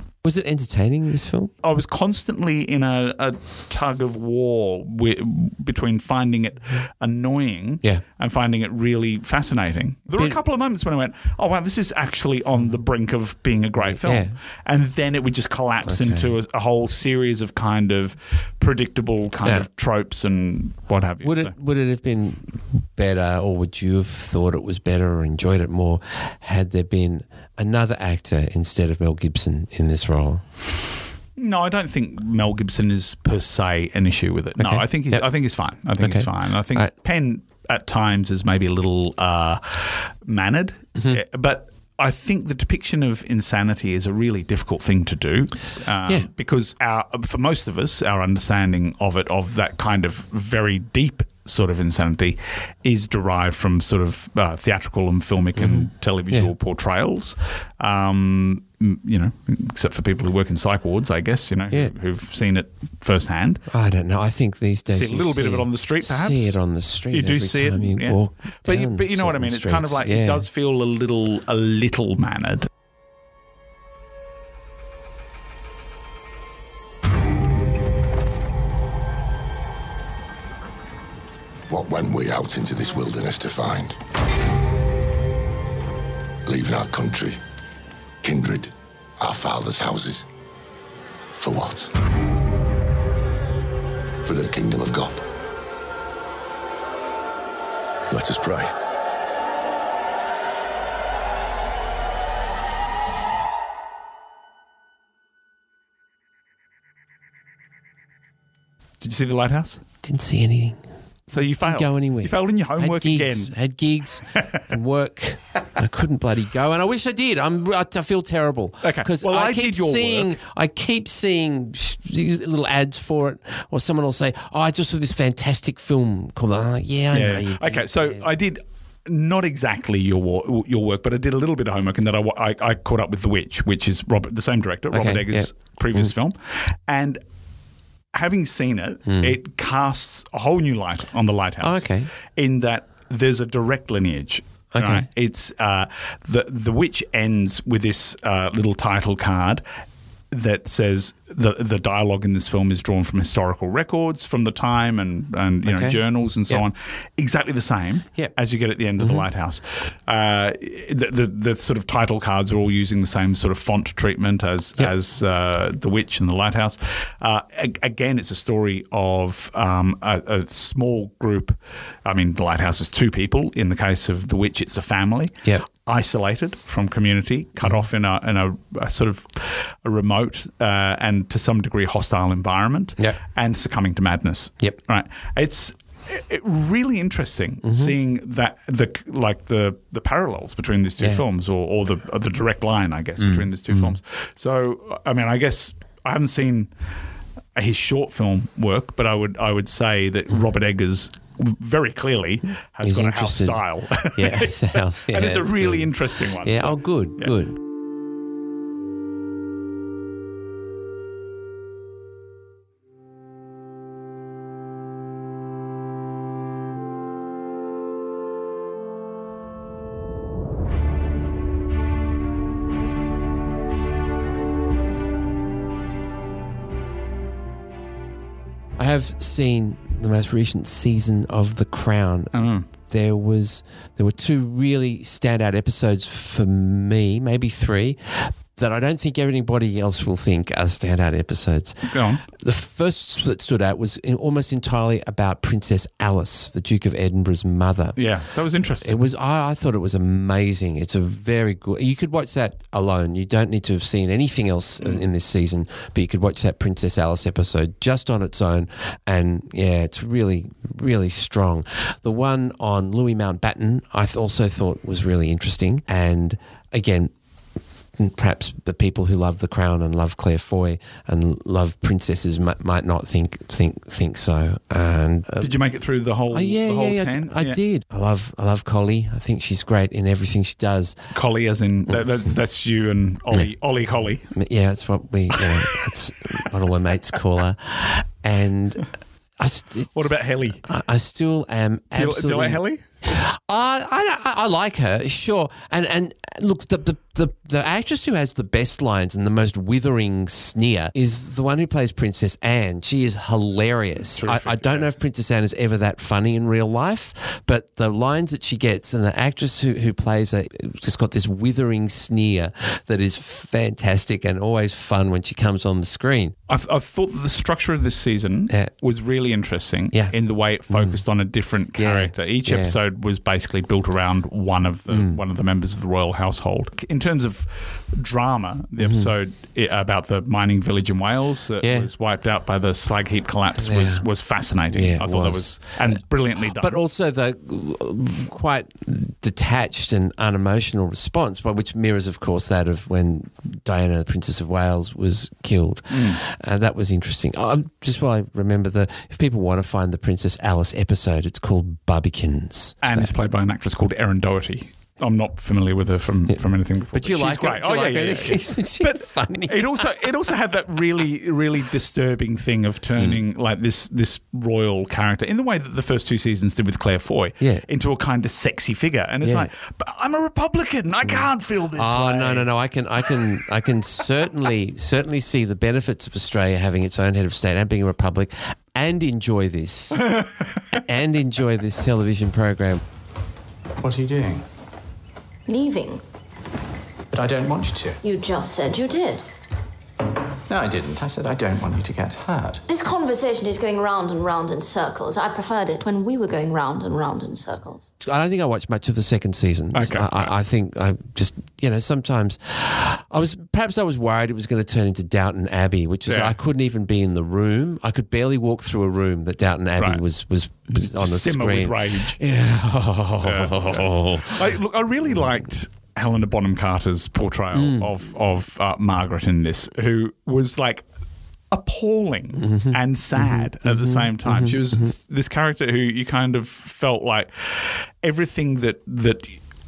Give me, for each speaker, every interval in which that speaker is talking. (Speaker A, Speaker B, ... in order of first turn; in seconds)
Speaker A: 0.2-1.5, 13.8-14.3, 15.8-16.3, 21.2-30.4, 34.6-35.3, 36.0-36.9, 55.6-56.5, 63.7-70.5, 110.0-110.8, 111.3-128.2, 134.9-136.1, 139.1-139.3, 141.6-142.1, 144.7-145.1, 155.7-156.7, 159.0-159.3, 187.6-188.0, 191.0-191.2, 193.2-193.9, 202.8-207.6, 228.8-248.0, 248.8-267.1, 268.0-275.6, 276.3-281.0, 284.3-288.9, 289.4-316.4, 320.7-321.0, 321.8-322.8, 324.9-325.2, 328.8-329.1, 331.6-331.9, 333.6-334.1, 334.7-335.6, 336.5-353.1, 356.9-360.1, 367.4-367.7, 369.2-369.5, 371.0-382.8, 398.0-414.4, 417.5-417.9, 422.4-424.9
Speaker B: 1.6-21.5, 31.4-63.6, 64.9-66.6, 67.1-72.7, 109.0-109.8, 111.3-113.5, 118.8-120.4, 127.1-137.2, 138.1-149.6, 150.3-196.7, 197.6-207.3, 232.3-232.7, 241.9-242.2, 248.0-249.0, 275.4-277.6, 281.1-284.3, 289.9-290.6, 291.9-292.8, 304.1-304.9, 316.5-336.8, 345.9-346.2, 352.8-372.5, 390.6-392.6, 399.7-400.4, 406.1-406.4, 409.8-410.0, 410.7-412.2, 413.2-420.8, 421.5-429.4
Speaker C: 81.7-84.0, 86.5-87.4, 88.2-90.3, 91.3-91.9, 94.2-95.2, 98.1-98.7
Speaker D: 383.8-384.4, 387.1-388.0, 390.5-392.6
Speaker E: 385.5-386.0, 388.0-389.2, 392.7-397.9